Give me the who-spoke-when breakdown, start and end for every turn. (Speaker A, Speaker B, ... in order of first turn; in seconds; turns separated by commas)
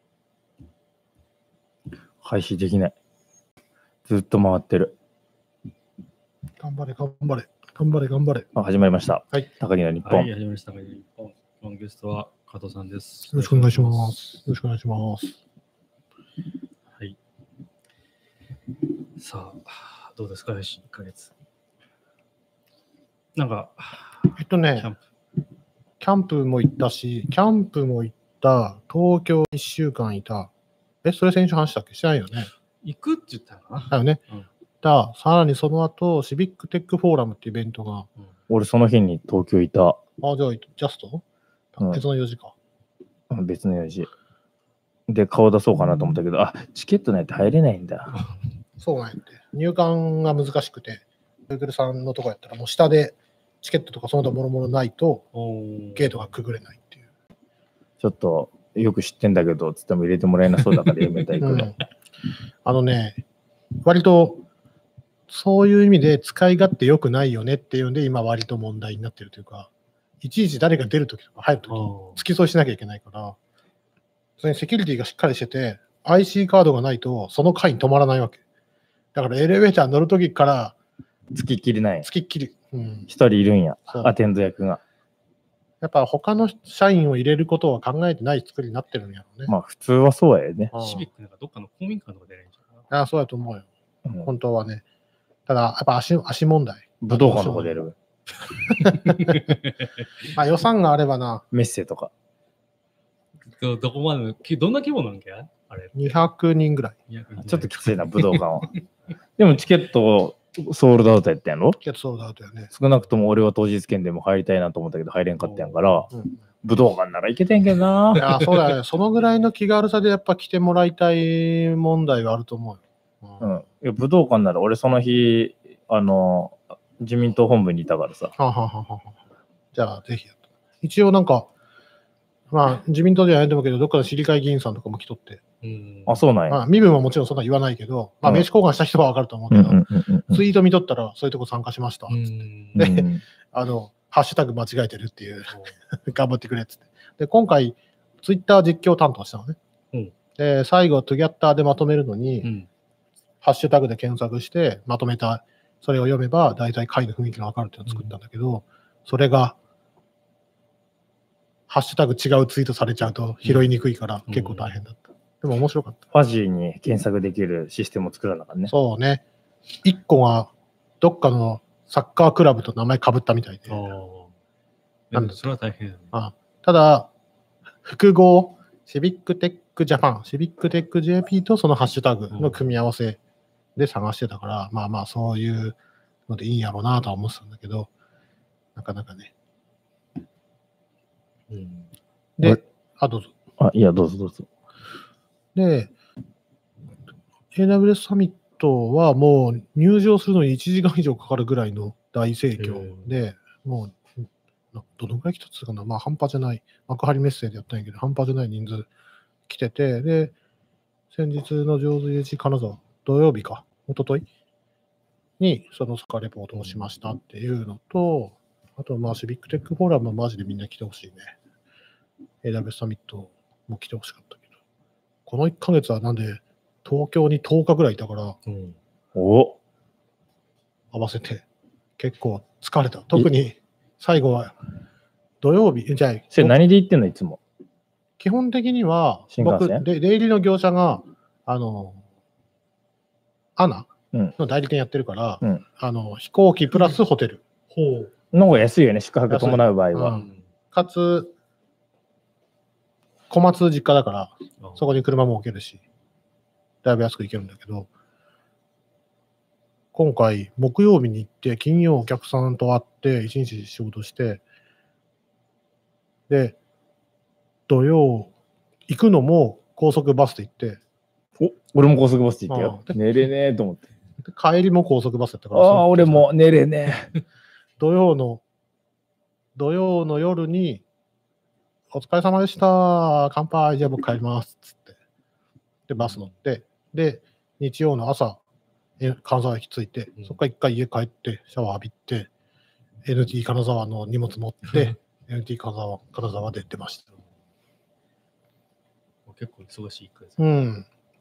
Speaker A: 2.2-2.9, Speaker A: 4.1-4.9, Speaker B: 6.6-8.5, Speaker A: 8.5-10.3, Speaker C: 10.0-14.1, Speaker B: 13.3-15.4, Speaker C: 19.2-21.3, Speaker C: 23.4-25.0, Speaker B: 24.4-24.9, Speaker B: 26.0-30.5, Speaker B: 31.0-32.5, Speaker C: 32.8-34.5, Speaker B: 33.9-34.2, Speaker B: 34.8-38.1, Speaker A: 38.5-40.0, Speaker B: 40.2-41.2, Speaker B: 41.7-42.5, Speaker A: 43.3-44.1, Speaker A: 45.1-48.1, Speaker B: 48.8-55.2, Speaker C: 55.3-56.3, Speaker B: 55.9-57.0, Speaker A: 58.0-61.7, Speaker B: 61.4-61.8, Speaker B: 62.6-63.2, Speaker B: 63.8-64.4, Speaker B: 65.3-69.7, Speaker B: 70.2-73.4, Speaker C: 71.7-72.2, Speaker B: 74.4-78.4, Speaker B: 79.1-80.8, Speaker A: 81.3-82.1, Speaker B: 82.0-83.1, Speaker A: 83.1-84.8, Speaker B: 85.8-89.5, Speaker A: 89.5-90.7, Speaker B: 90.7-91.1, Speaker C: 90.7-92.9, Speaker B: 92.9-93.7, Speaker B: 94.2-94.8, Speaker B: 95.5-97.8, Speaker A: 97.0-97.9, Speaker C: 98.7-99.7, Speaker B: 98.8-99.4, Speaker B: 100.3-101.4, Speaker A: 101.5-102.1, Speaker C: 103.5-106.2, Speaker B: 106.0-107.0, Speaker C: 107.1-108.5, Speaker A: 107.4-108.8, Speaker A: 109.4-111.8, Speaker B: 111.8-112.7, Speaker A: 112.7-116.1, Speaker C: 115.4-116.1, Speaker B: 116.1-116.4, Speaker A: 116.6-118.4, Speaker B: 118.2-123.5, Speaker A: 123.4-128.3, Speaker B: 128.4-129.2, Speaker B: 129.7-131.5, Speaker B: 132.5-135.4, Speaker C: 135.6-136.2, Speaker A: 136.1-136.6, Speaker B: 136.5-142.2, Speaker A: 139.5-140.4, Speaker C: 142.1-142.8, Speaker B: 142.7-149.6, Speaker A: 142.8-143.2, Speaker B: 150.4-152.5, Speaker C: 152.4-152.7, Speaker B: 153.4-159.6, Speaker C: 157.9-158.1, Speaker B: 161.7-166.0, Speaker C: 164.3-164.7, Speaker A: 166.1-168.7, Speaker B: 168.7-169.2, Speaker B: 169.8-173.9, Speaker C: 173.7-174.3, Speaker C: 175.1-176.1, Speaker B: 175.1-175.4, Speaker B: 176.1-177.1, Speaker B: 177.8-183.2, Speaker C: 182.3-182.6, Speaker B: 183.8-185.8, Speaker B: 186.3-187.9, Speaker B: 188.7-189.3, Speaker C: 191.5-191.9, Speaker B: 192.4-193.3, Speaker A: 193.6-194.5, Speaker B: 195.5-195.9, Speaker B: 197.5-208.9, Speaker C: 202.6-203.1, Speaker B: 209.5-210.3, Speaker B: 211.1-214.2, Speaker B: 215.4-221.3, Speaker B: 222.4-224.4, Speaker B: 225.3-228.4, Speaker C: 228.4-228.8, Speaker A: 229.1-229.6, Speaker B: 230.9-231.4, Speaker B: 232.0-234.5, Speaker B: 235.4-236.6, Speaker A: 236.3-237.4, Speaker B: 238.2-242.0, Speaker A: 239.3-239.8, Speaker B: 243.6-247.4, Speaker C: 247.7-248.1, Speaker A: 248.3-250.2, Speaker B: 249.3-251.3, Speaker C: 250.1-250.4, Speaker B: 253.3-255.8, Speaker C: 254.6-254.9, Speaker B: 256.8-257.9, Speaker B: 259.9-264.4, Speaker B: 266.3-266.6, Speaker B: 267.7-268.3, Speaker B: 268.9-270.8, Speaker A: 271.4-273.9, Speaker B: 272.5-273.0, Speaker B: 274.3-276.3, Speaker A: 275.5-277.1, Speaker B: 277.8-278.4, Speaker B: 279.5-280.8, Speaker B: 281.9-284.9, Speaker B: 285.9-288.4, Speaker B: 289.0-292.3, Speaker B: 293.0-297.0, Speaker C: 294.6-295.0, Speaker C: 299.2-300.4, Speaker B: 300.4-300.9